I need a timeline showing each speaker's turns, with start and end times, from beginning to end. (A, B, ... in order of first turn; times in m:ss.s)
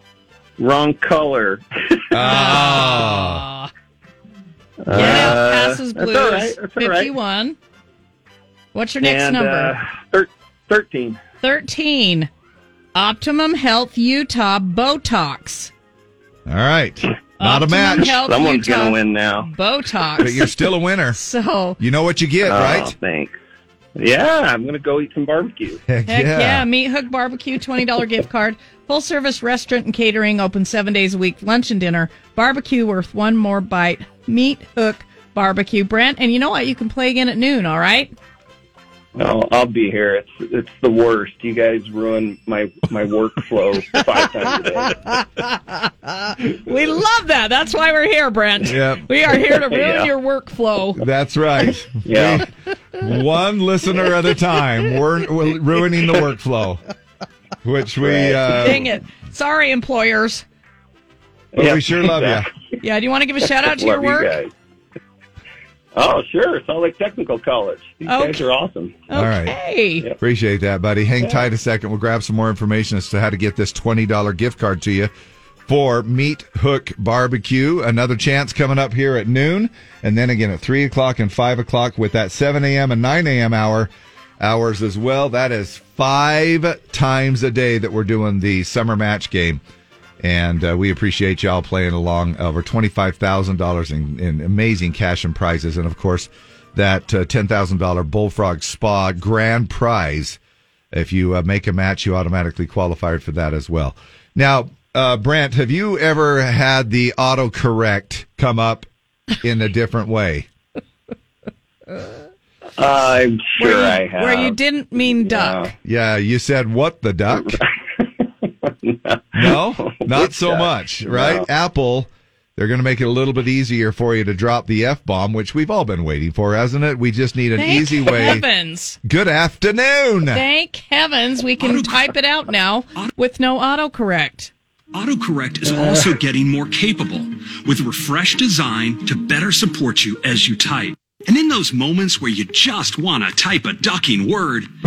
0:00.6-0:01.6 A
0:02.1-0:03.4 B
0:02.2-0:03.7 C
0:04.8-0:07.1 A
0:04.9-0:07.6 C
0:08.7-0:09.8 C
0:09.0-0:11.2 A
0:11.4-0:12.3 C
0:13.0-0:15.7 C
0:16.5-0:18.2 B
0:17.4-0:20.5 C
0:18.1-0:19.5 A
0:20.2-0:21.2 B
0:21.1-0:21.8 C
0:21.8-0:23.0 B
0:22.4-0:23.4 A
0:24.0-0:25.8 A
0:25.9-0:26.7 B
0:26.1-0:38.1 C
0:39.2-0:45.0 A
0:46.3-0:51.0 C
0:48.6-0:49.1 B
0:49.5-0:50.1 A
0:51.0-0:56.8 B
0:52.0-0:52.5 A
0:57.6-0:59.0 B
0:58.0-0:58.4 A
0:58.5-1:00.4 C
1:01.6-1:02.5 A
1:01.6-1:02.5 B
1:02.8-1:04.3 C
1:03.6-1:04.5 A
1:06.0-1:09.0 A
1:08.1-1:08.5 C
1:09.1-1:10.1 C
1:09.1-1:09.6 B
1:10.2-1:15.1 B
1:15.7-1:29.6 B
1:30.2-1:40.4 B
1:40.9-1:48.9 B
1:49.4-1:50.5 B
1:52.8-1:55.7 A
1:53.6-1:55.7 C
1:55.8-1:57.6 B
1:58.6-2:01.5 A
1:59.3-2:08.4 B
2:07.6-2:09.0 C
2:09.0-2:10.4 B
2:10.3-2:14.5 C
2:15.0-2:24.7 D